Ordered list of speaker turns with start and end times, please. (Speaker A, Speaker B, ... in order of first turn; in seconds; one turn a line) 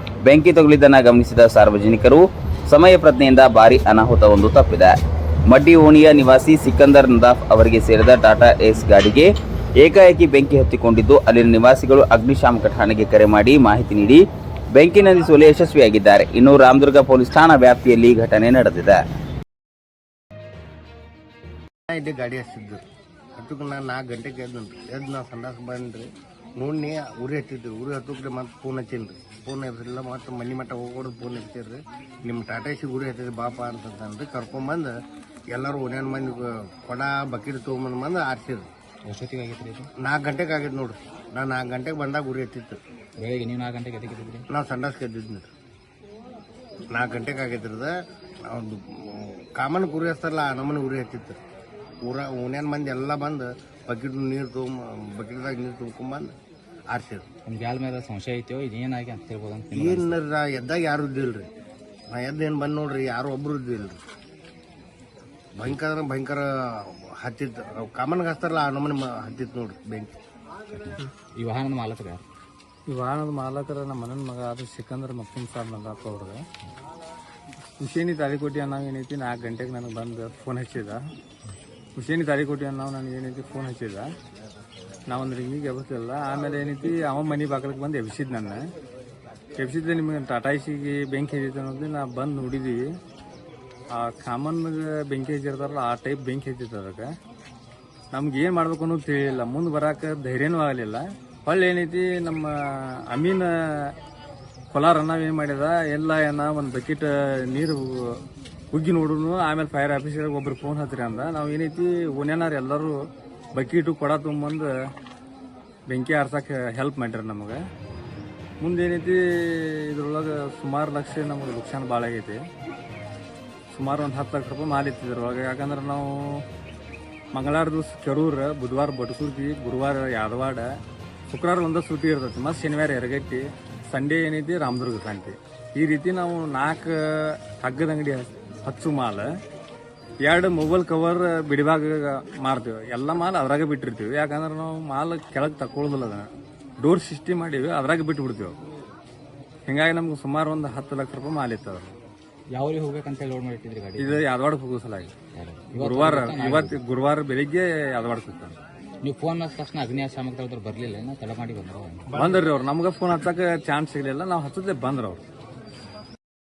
Speaker A: 0.2-5.0
Speaker A: 5.5-14.2
Speaker A: 14.7-19.0
Speaker B: 21.9-22.8
Speaker B: 23.4-34.9
Speaker B: 35.5-38.7
Speaker C: 39.1-39.9
Speaker B: 40.0-42.8
Speaker C: 43.2-44.5
Speaker B: 44.5-45.5
Speaker B: 46.9-47.9
Speaker B: 48.5-51.4
Speaker B: 52.0-56.3
Speaker B: 56.9-57.2
Speaker C: 57.4-60.2
Speaker B: 59.7-61.5
Speaker B: 62.1-64.0
Speaker B: 65.5-70.1
Speaker C: 70.7-72.2
Speaker D: 72.9-76.4
Speaker D: 77.8-81.0
Speaker D: 82.0-84.1
Speaker D: 85.1-88.6
Speaker D: 89.6-92.8
Speaker D: 93.9-97.1
Speaker D: 98.1-103.9
Speaker D: 104.7-113.0
Speaker D: 113.5-114.7
Speaker D: 115.9-117.6
Speaker D: 118.6-122.4
Speaker D: 123.7-126.4
Speaker D: 127.3-130.7
Speaker D: 131.3-139.3
Speaker D: 140.2-146.3
Speaker D: 146.8-148.6
Speaker D: 149.7-151.9
Speaker C: 152.5-154.2
Speaker D: 154.0-155.1
Speaker C: 155.3-156.8
Speaker D: 155.7-158.6
Speaker C: 159.0-162.1
Speaker B: 162.1-162.5
Speaker D: 162.1-165.2